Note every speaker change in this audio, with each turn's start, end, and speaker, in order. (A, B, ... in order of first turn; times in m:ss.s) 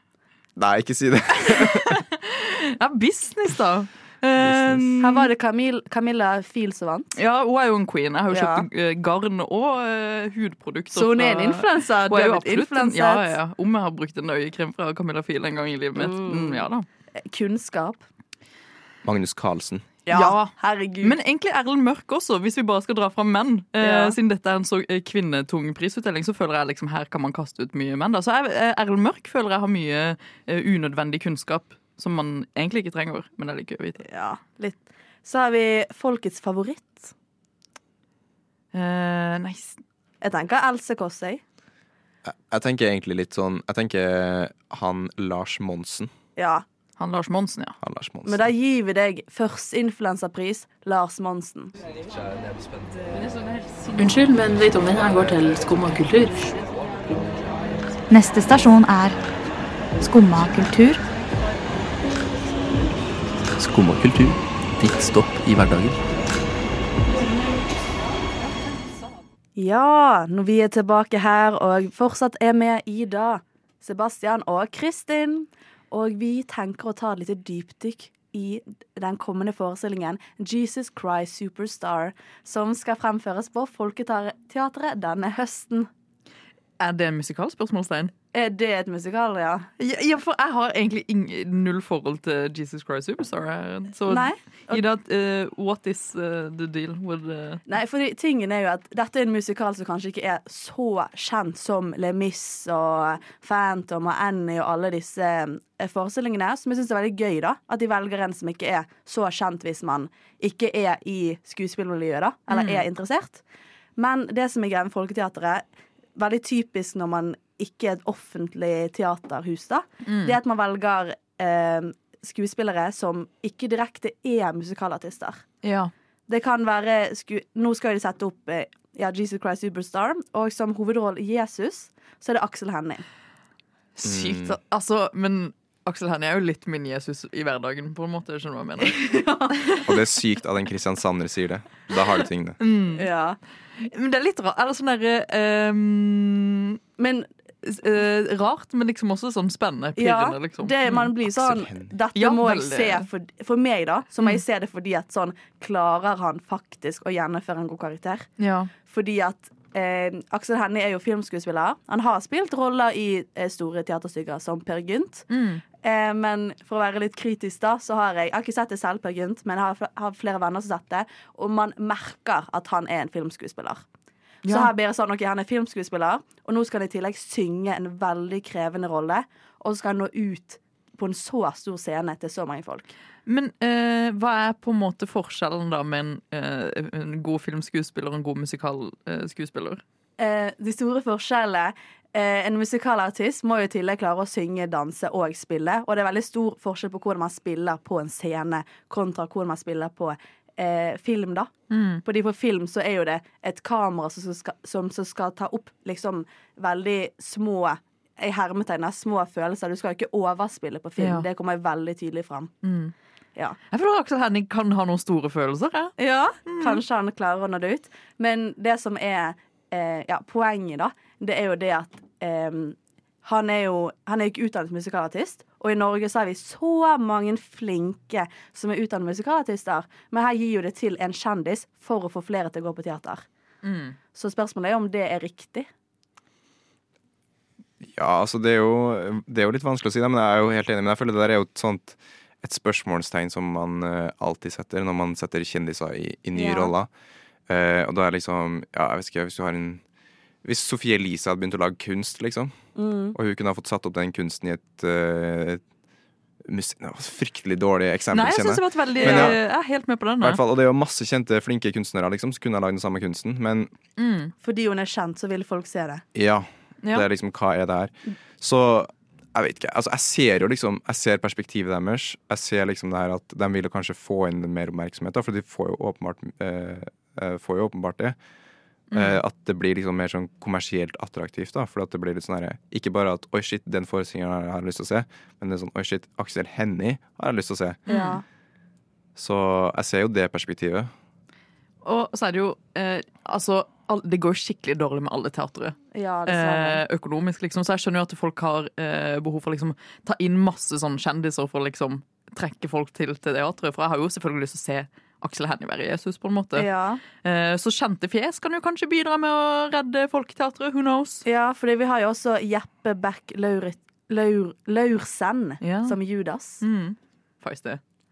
0:00.6-0:02.0 A
0:01.5-0:05.3 B
0:04.4-0:05.0 A
0:05.0-0:07.2 C
0:07.2-0:16.9 B
0:08.3-0:08.7 C
0:10.9-0:13.3 C
0:16.0-0:16.7 C
0:17.2-0:18.0 C
0:19.0-0:19.9 A
0:20.1-0:21.2 C
0:20.1-0:34.0 B
0:23.8-0:24.2 C
0:34.0-0:37.1 C
0:38.7-0:39.8 B
0:40.2-0:41.4 C
0:42.2-0:46.1 A
0:46.4-0:46.6 C
0:47.0-0:47.8 B
0:47.8-0:48.5 A
0:48.2-0:51.7 C
0:54.0-0:57.4 D
0:58.1-0:59.2 E
1:00.0-1:01.0 E
1:03.5-1:06.0 F
1:09.6-1:25.9 C
1:26.8-1:28.1 B
1:28.3-1:29.7 C
1:29.8-1:37.6 B
1:34.1-1:34.8 C
1:37.7-1:53.4 C
1:52.5-1:52.8 B
1:54.0-1:55.6 C
1:56.2-2:05.4 C
2:00.1-2:00.4 B
2:05.6-2:05.9 B
2:06.3-2:13.0 C
2:14.0-2:19.0 B
2:14.0-2:14.6 A
2:18.8-2:19.6 C
2:19.6-2:19.8 B
2:19.8-2:22.6 A
2:22.6-2:23.1 B
2:23.0-2:23.4 C
2:23.8-2:26.8 B
2:27.0-2:27.3 C
2:27.6-2:31.1 B
2:30.0-2:38.3 C
2:31.3-2:31.9 A
2:32.2-2:33.1 B
2:38.4-2:38.7 B
2:38.9-2:45.3 C
2:45.3-2:45.6 B
2:45.8-2:53.8 C
2:54.4-2:54.7 B
2:54.5-3:02.9 C
3:03.3-3:09.8 B
3:10.2-3:21.5 C
3:21.7-3:22.0 B
3:22.0-3:32.5 C
3:31.0-3:31.3 B
3:32.6-3:32.9 B
3:33.7-3:35.9 B
3:36.0-3:53.3 C
3:36.5-3:36.8 B
3:53.6-3:54.0 B
3:54.1-3:55.7 C
3:57.8-4:06.9 A
4:06.4-4:06.7 C
4:07.5-4:09.8 A
4:10.4-4:12.5 A
4:12.8-4:13.2 C
4:13.1-4:15.6 A
4:16.4-4:19.4 A
4:18.1-4:20.4 B
4:19.0-4:19.3 C
4:20.2-4:23.7 A
4:24.0-4:24.3 B
4:24.4-4:26.0 C
4:26.1-4:38.2 A
4:38.9-4:39.2 B
4:38.9-4:47.8 A
4:47.9-4:48.2 B
4:47.9-4:48.2 C
4:49.2-4:50.9 A
4:51.8-5:11.2 B
4:55.9-4:56.8 C
5:06.6-5:07.0 C
5:11.2-5:16.6 C
5:15.6-5:16.0 B
5:16.6-5:17.8 B